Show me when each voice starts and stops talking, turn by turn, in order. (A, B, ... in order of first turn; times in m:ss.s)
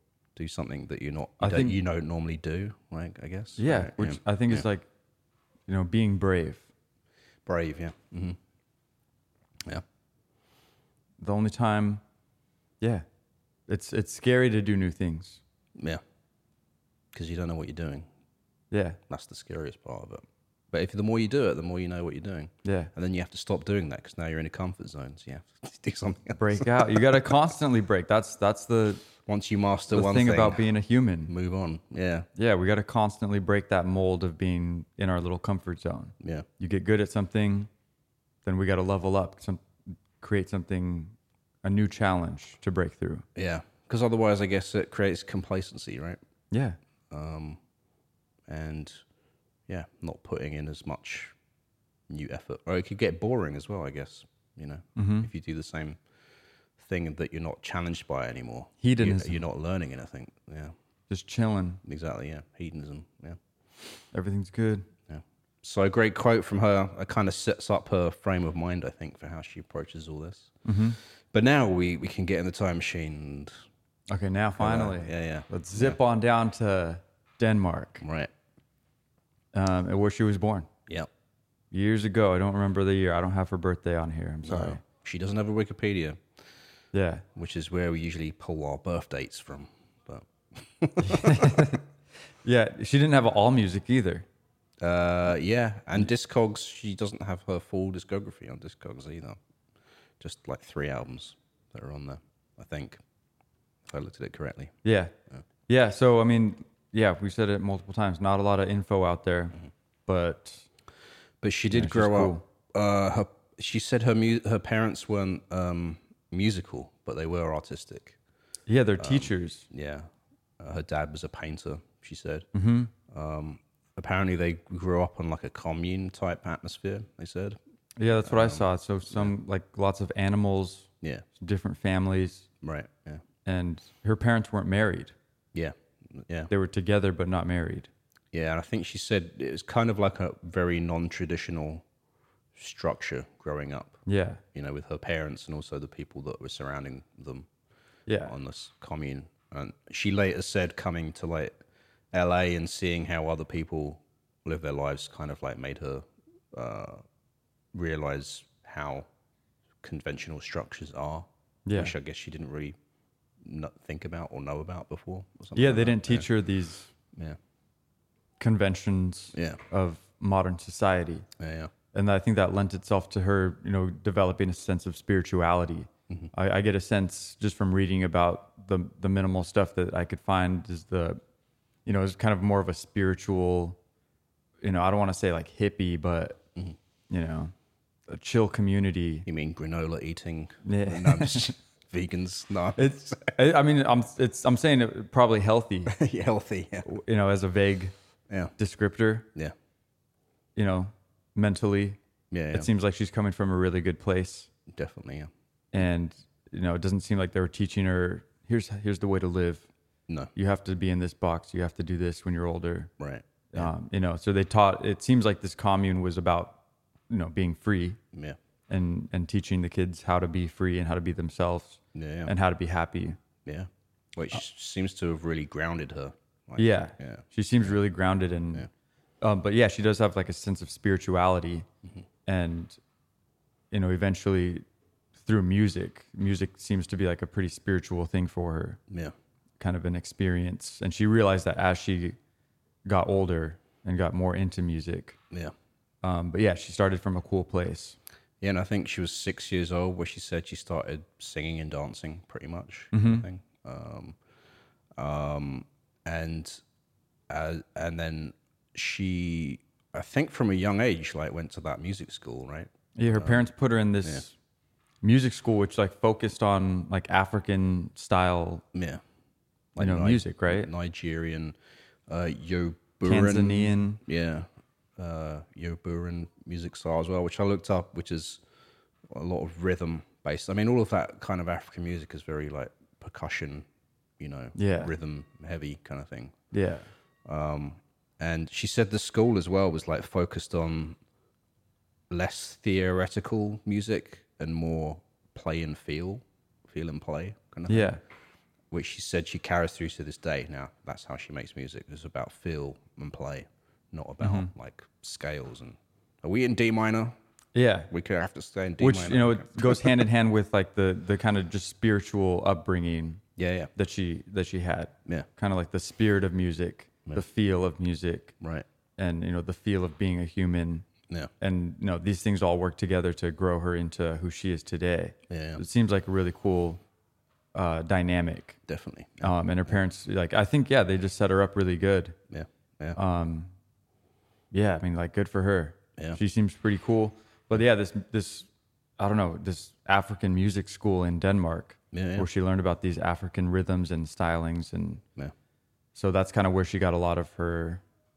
0:00.4-0:04.6 A
0:01.4-0:01.8 B
0:03.6-0:04.9 B
0:05.7-0:06.7 B
0:07.4-0:08.4 A
0:11.2-0:12.0 B
0:12.8-0:13.0 B
0:13.7-0:15.4 B
0:15.8-0:16.0 A
0:17.1-0:18.1 A
0:18.7-0:19.0 B
0:19.1-0:27.2 A
0:22.6-0:22.9 B
0:26.4-0:29.0 B
0:29.2-0:30.7 A
0:29.9-0:31.3 B
0:31.3-0:32.3 A
0:32.4-0:37.7 B
0:36.2-0:36.4 A
0:38.4-0:43.2 B
0:43.3-0:46.2 A
0:46.5-0:46.8 B
0:47.1-0:47.6 A
0:48.5-0:49.0 A
0:49.7-0:51.3 A
0:52.1-0:56.0 A
0:55.0-0:55.3 B
0:56.8-1:00.7 A
0:58.8-0:59.4 B
1:01.1-1:01.8 B
1:01.8-1:03.4 A
1:04.1-1:04.8 B
1:05.1-1:10.5 A
1:10.6-1:11.0 B
1:11.3-1:13.5 A
1:14.1-1:18.0 B
1:14.6-1:16.0 A
1:18.0-1:18.3 A
1:19.5-1:20.7 B
1:21.7-1:24.8 B
1:24.4-1:26.2 A
1:26.9-1:27.2 B
1:27.3-1:31.6 A
1:31.0-1:31.8 B
1:32.4-1:34.2 B
1:34.8-1:39.4 A
1:40.2-1:43.0 A
1:43.8-1:44.7 A
1:44.8-1:45.1 B
1:45.7-1:50.7 B
1:51.4-1:58.2 A
1:51.7-1:52.4 B
1:58.7-1:59.7 B
1:59.0-2:02.5 A
2:02.5-2:02.9 B
2:03.0-2:07.6 A
2:08.0-2:12.4 B
2:08.2-2:09.3 A
2:12.6-2:13.2 A
2:13.4-2:15.1 B
2:15.5-2:16.5 A
2:16.5-2:17.9 B
2:18.3-2:21.8 A
2:22.5-2:24.0 A
2:24.0-2:24.4 B
2:24.5-2:27.5 A
2:28.1-2:28.3 B
2:28.2-2:31.6 A
2:32.1-2:37.0 A
2:37.7-2:39.1 A
2:39.8-2:42.8 A
2:41.6-2:41.9 B
2:43.4-2:46.3 A
2:45.6-2:46.9 B
2:47.1-2:47.4 A
2:48.4-2:51.2 B
2:49.3-2:49.6 A
2:51.4-2:51.7 A
2:51.9-3:01.2 B
3:01.8-3:03.8 B
3:04.6-3:06.4 B
3:07.1-3:07.5 B
3:08.1-3:09.3 B
3:09.2-3:13.3 A
3:10.6-3:11.5 B
3:12.8-3:15.9 B
3:15.9-3:16.8 A
3:16.8-3:17.9 B
3:18.6-3:19.3 B
3:20.6-3:22.0 B
3:22.3-3:22.7 A
3:22.5-3:24.5 B
3:24.7-3:25.3 A
3:25.7-3:29.7 B
3:30.3-3:32.9 B
3:33.0-3:33.7 A
3:33.5-3:38.0 B
3:38.7-3:43.2 B
3:41.9-3:42.3 A
3:43.4-3:47.8 A
3:46.6-3:48.7 B
3:49.2-3:51.6 B
3:52.2-3:52.8 B
3:53.7-3:54.6 B
3:55.2-3:58.8 B
3:59.6-4:02.2 B
4:02.8-4:05.2 B
4:06.0-4:08.0 B
4:08.4-4:14.2 A
4:12.9-4:13.2 B
4:15.0-4:16.6 A
4:17.3-4:23.5 A
4:23.0-4:24.3 B
4:25.0-4:28.6 B
4:28.7-4:29.0 A
4:29.7-4:31.6 A
4:29.8-4:30.7 B
4:32.1-4:38.4 A
4:33.0-4:34.0 B
4:39.1-4:43.6 A
4:44.2-4:46.4 A
4:44.6-4:44.9 B
4:46.5-4:46.9 B
4:47.2-4:51.0 A
4:52.1-4:58.0 A
4:57.7-4:58.0 B
4:58.7-5:07.2 A
5:04.2-5:04.5 B
5:07.5-5:07.9 B
5:07.9-5:10.0 A
5:08.8-5:13.2 B
5:13.4-5:13.7 A
5:13.8-5:18.3 B
5:18.4-5:18.6 A
5:19.0-5:20.8 B
5:21.4-5:26.8 B
5:25.3-5:25.6 A
5:27.5-5:28.6 B
5:28.7-5:29.8 A
5:29.2-5:32.2 B
5:32.3-5:33.0 A
5:32.9-5:33.5 B
5:34.5-5:45.0 B
5:41.9-5:42.3 A
5:45.9-5:47.8 B